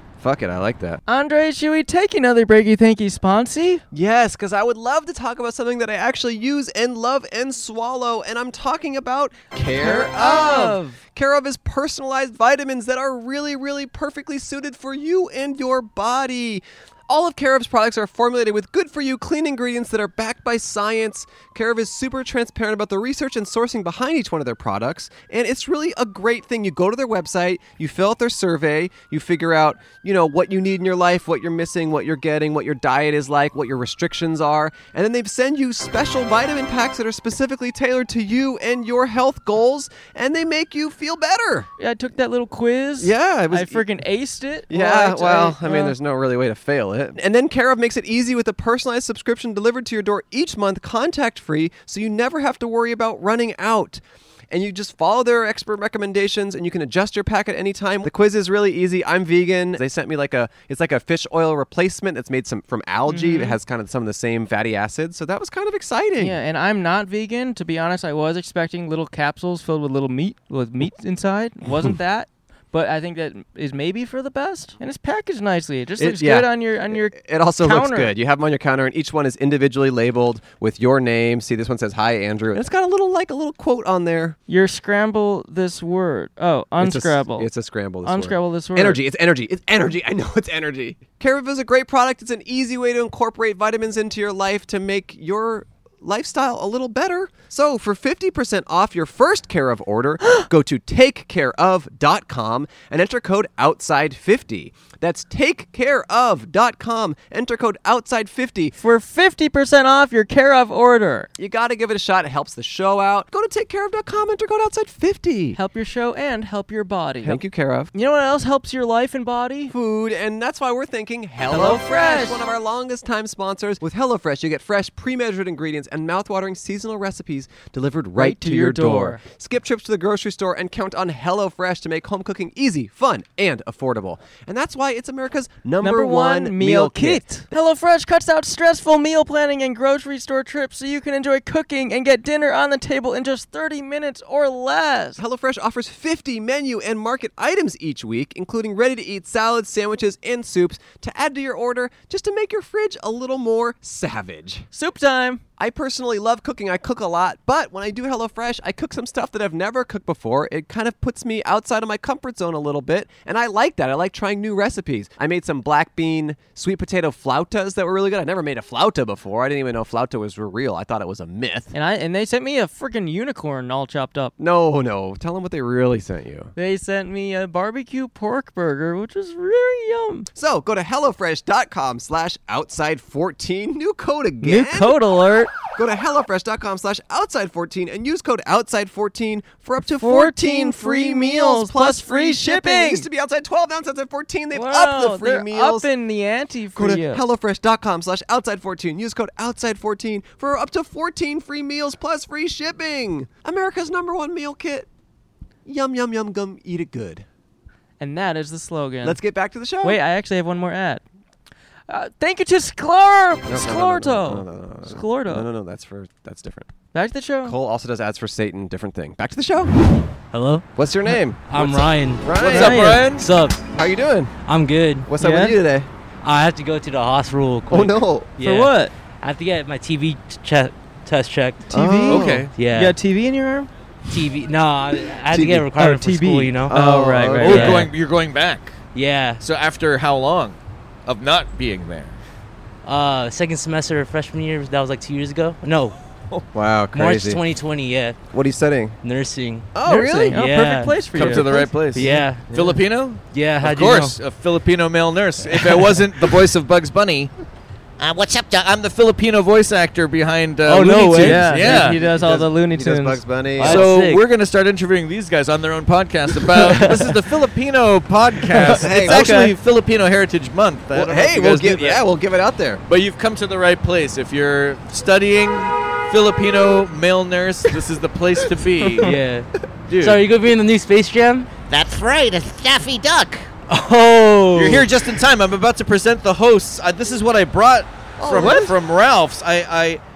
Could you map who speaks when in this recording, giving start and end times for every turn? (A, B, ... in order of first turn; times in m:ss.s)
0:00.2-0:01.0 A
0:01.1-0:03.8 B
0:03.9-0:41.7 A
0:09.8-0:11.0 B
0:41.8-0:46.0 B
0:43.0-0:43.8 A
0:44.7-1:06.4 A
1:03.1-1:03.6 B
1:06.2-1:18.1 B
1:16.0-1:24.4 A
1:24.5-1:27.5 B
1:26.8-1:48.8 A
1:28.0-1:29.0 B
1:48.8-1:51.3 B
1:51.4-1:55.6 A
1:55.5-1:59.7 B
1:57.2-1:57.9 A
1:59.7-2:17.2 A
2:01.5-2:02.4 B
2:08.2-2:09.2 B
2:15.8-2:25.2 B
2:25.2-2:34.7 A
2:34.7-2:35.4 B
2:35.6-2:51.7 A
2:51.7-2:54.3 B
2:54.4-2:56.5 A
2:56.6-3:00.3 B
3:00.3-3:05.0 A
3:04.4-3:05.5 B
3:05.7-3:15.9 A
3:09.9-3:13.1 B
3:14.5-3:17.2 B
3:16.8-3:24.9 A
3:25.6-3:27.2 A
3:28.0-3:29.2 B
3:29.0-3:30.0 A
3:29.8-3:31.0 B
3:31.9-3:35.5 B
3:33.5-3:36.7 A
3:36.9-3:37.6 B
3:37.4-3:39.7 A
3:40.3-3:40.7 C
3:40.8-3:42.8 A
3:41.4-3:43.6 C
3:41.6-3:43.3 D
3:42.5-3:43.1 B
3:43.7-3:44.3 A
3:44.4-3:45.1 C
3:45.0-3:45.9 A
3:45.2-3:45.6 B
3:46.2-3:51.7 C
3:47.7-3:48.3 A
3:48.4-3:48.9 B
3:51.7-3:53.7 B
3:51.7-3:52.5 A
3:52.1-3:52.5 D
3:52.5-3:53.0 C
3:54.1-3:56.8 C
3:55.3-3:55.7 A
3:55.6-3:57.9 B
3:56.6-3:57.8 A
3:57.4-3:58.8 D
3:57.4-3:57.9 C
3:58.9-3:59.4 C
3:59.4-4:02.2 D
4:02.8-4:06.0 C
4:06.5-4:07.4 A
4:06.9-4:08.2 C
4:08.3-4:09.0 A
4:09.0-4:14.2 C
4:09.7-4:10.4 A
4:09.8-4:12.2 B
4:11.1-4:17.3 D
4:11.5-4:11.8 A
4:12.5-4:12.8 A
4:15.5-4:16.0 C
4:18.0-4:18.8 E
4:18.7-4:22.0 D
4:20.6-4:21.9 C
4:21.2-4:23.8 B
4:21.8-4:23.8 A
4:23.6-4:24.2 C
4:23.6-4:32.0 D
4:26.5-4:27.2 C
4:28.6-4:29.5 B
4:28.7-4:29.3 A
4:30.9-4:32.8 A
4:32.9-4:39.1 D
4:39.0-4:41.5 C
4:39.9-4:40.2 D
4:41.7-4:43.5 E
4:43.7-4:45.1 C
4:44.6-4:50.0 D
4:48.2-4:48.8 A